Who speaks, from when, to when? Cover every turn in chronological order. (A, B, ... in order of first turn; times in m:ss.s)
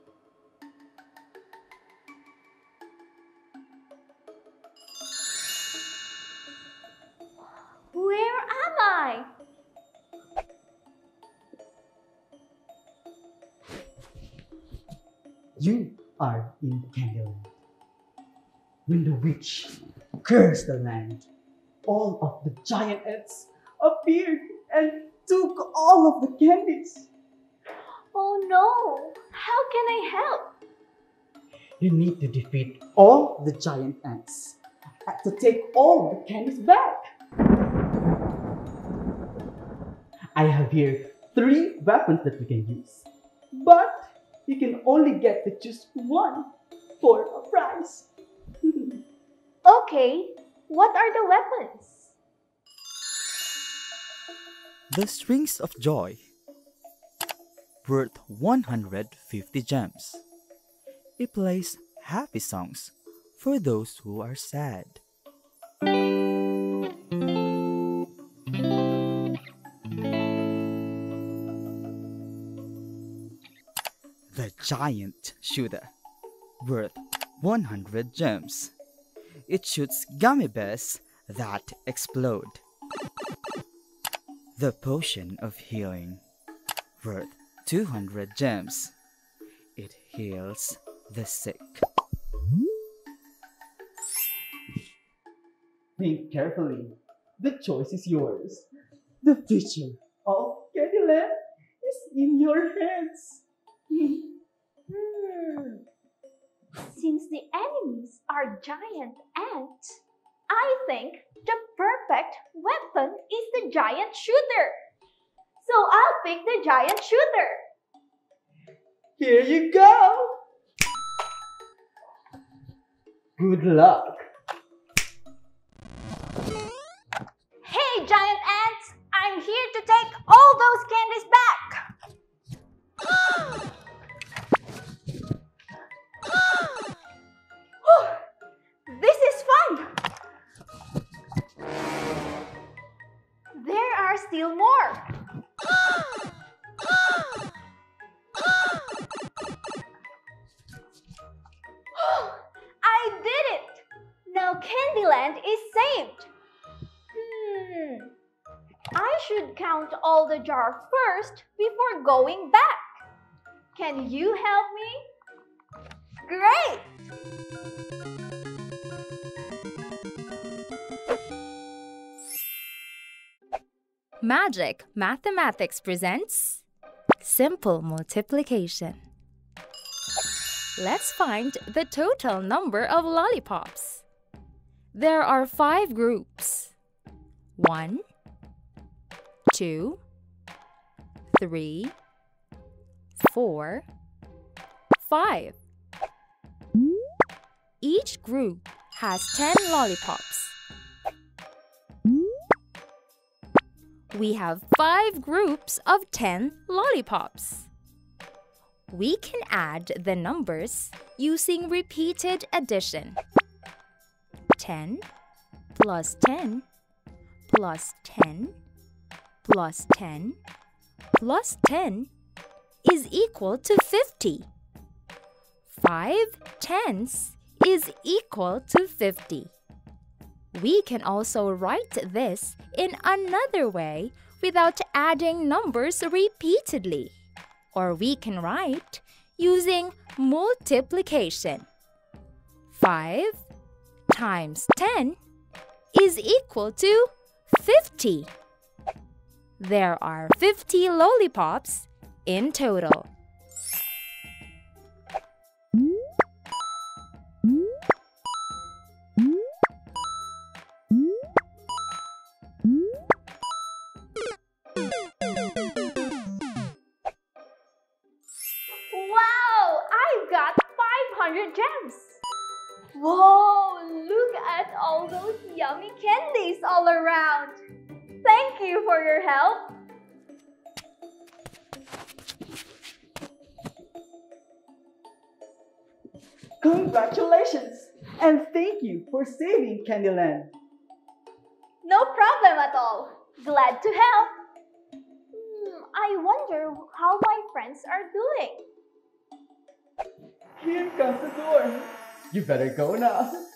0:07.9-0:09.3 A
0:15.6-0:17.5 B
0:18.9-0:21.2 B
0:21.8-0:27.1 B
0:28.1-0:30.4 A
0:31.8-0:37.0 B
0:40.3-0:46.5 B
0:47.0-0:48.1 B
0:48.7-0:48.9 B
0:49.6-0:52.1 A
0:54.9-0:56.2 C
0:57.8-1:00.2 C
1:01.2-1:05.0 C
1:14.3-1:15.9 C
1:16.6-1:18.7 C
1:19.5-1:22.6 C
1:24.6-1:26.2 C
1:27.0-1:28.9 C
1:29.8-1:31.8 C
1:36.0-1:38.7 B
1:39.2-1:44.3 B
1:44.9-1:45.8 A
1:46.7-1:50.0 A
1:50.5-1:54.7 A
1:55.6-1:57.6 A
1:59.2-2:00.4 B
2:03.4-2:04.2 B
2:07.6-2:11.8 A
2:17.8-2:18.2 A
2:18.9-2:19.9 A
2:23.5-2:25.1 A
2:31.9-2:36.3 A
2:37.2-2:38.1 A
2:38.9-2:43.0 A
2:43.7-2:45.0 A
2:46.2-2:46.8 A
2:54.2-2:56.6 D
2:57.2-2:59.0 D
3:00.8-3:04.0 D
3:04.9-3:06.7 D
3:07.6-3:08.0 D
3:09.5-3:10.0 D
3:11.3-3:11.9 D
3:13.1-3:13.8 D
3:15.0-3:15.6 D
3:17.8-3:20.5 D
3:24.1-3:27.7 D
3:28.9-3:33.2 D
3:34.6-3:35.0 D
3:35.7-3:36.6 D
3:37.4-3:38.5 D
3:39.4-3:40.4 D
3:41.1-3:42.1 D
3:42.8-3:44.5 D
3:45.7-3:49.5 D
3:50.5-3:57.1 D
3:57.7-4:01.7 D
4:02.7-4:03.4 D
4:04.1-4:05.2 D
4:05.9-4:08.3 D
4:09.6-4:13.1 D
4:28.9-4:32.2 A
4:32.9-4:37.6 A
4:38.2-4:39.7 A
4:46.6-4:50.5 B
4:51.8-4:54.3 A
4:55.3-4:58.6 A
5:00.6-5:03.4 B